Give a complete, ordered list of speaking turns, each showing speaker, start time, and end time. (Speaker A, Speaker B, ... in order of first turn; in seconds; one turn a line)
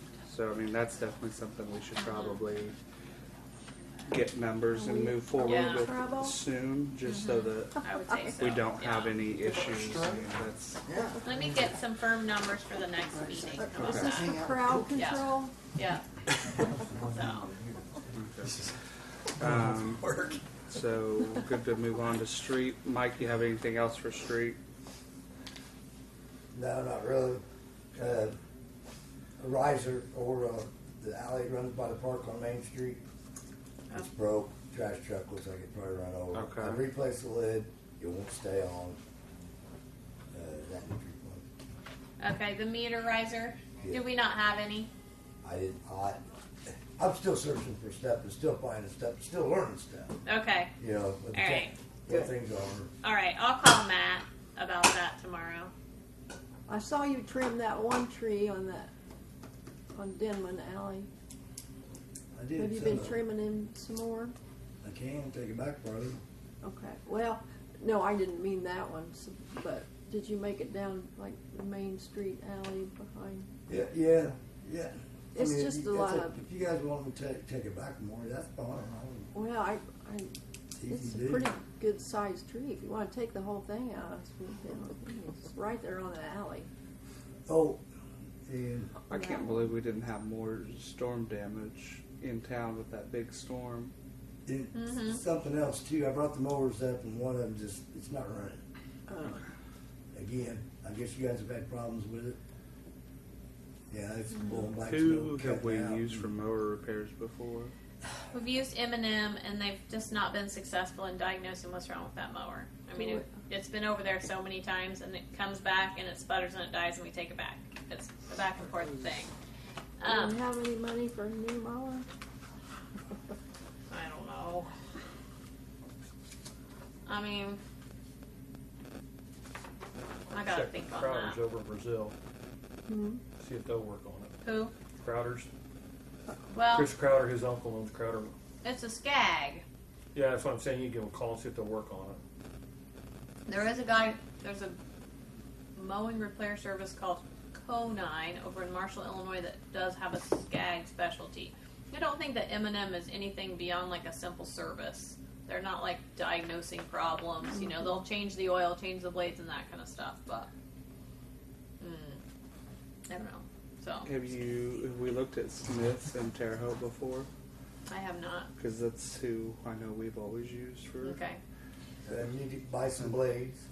Speaker A: 0.3-2.8
Speaker B: 2.0-2.4
Speaker A: 4.1-10.8
Speaker C: 4.7-6.4
Speaker B: 5.5-5.9
Speaker B: 7.1-9.2
Speaker D: 9.5-10.2
Speaker B: 11.2-14.4
Speaker C: 13.6-15.6
Speaker D: 14.3-14.9
Speaker B: 14.9-16.1
Speaker D: 16.5-18.7
Speaker B: 17.0-17.5
Speaker A: 18.1-18.6
Speaker A: 19.4-20.1
Speaker D: 19.4-20.4
Speaker A: 20.7-24.6
Speaker E: 26.5-27.4
Speaker E: 27.9-28.4
Speaker E: 29.4-33.0
Speaker E: 33.9-39.0
Speaker A: 36.3-36.8
Speaker E: 40.3-41.5
Speaker B: 42.2-44.9
Speaker E: 45.4-46.2
Speaker E: 46.9-50.2
Speaker B: 50.3-50.7
Speaker E: 50.8-52.9
Speaker B: 51.3-51.8
Speaker B: 53.0-55.7
Speaker C: 56.7-58.9
Speaker C: 59.9-61.1
Speaker E: 62.3-63.2
Speaker C: 62.6-64.3
Speaker E: 64.8-66.2
Speaker C: 66.6-73.5
Speaker E: 73.7-79.3
Speaker C: 75.3-76.4
Speaker C: 79.3-80.3
Speaker E: 80.8-81.5
Speaker C: 80.9-86.7
Speaker E: 87.5-87.8
Speaker E: 88.5-89.0
Speaker A: 89.1-93.9
Speaker C: 89.1-89.6
Speaker E: 94.5-98.6
Speaker B: 94.7-95.2
Speaker C: 99.1-99.4
Speaker E: 100.1-102.4
Speaker E: 103.9-106.3
Speaker A: 104.8-107.7
Speaker B: 108.3-119.3
Speaker B: 120.0-120.4
Speaker C: 120.0-122.1
Speaker B: 123.9-124.7
Speaker B: 127.1-127.6
Speaker B: 130.3-131.4
Speaker F: 130.5-132.2
Speaker C: 132.9-133.2
Speaker F: 133.4-134.3
Speaker B: 134.4-134.7
Speaker F: 135.0-135.5
Speaker B: 136.5-136.9
Speaker F: 136.7-138.3
Speaker B: 138.6-139.7
Speaker F: 140.1-142.2
Speaker B: 143.5-144.8
Speaker B: 145.8-160.5
Speaker B: 161.8-162.2
Speaker B: 163.1-164.1
Speaker A: 164.1-167.3
Speaker B: 167.9-168.5
Speaker A: 168.6-171.2
Speaker B: 171.0-171.4
Speaker E: 172.1-173.6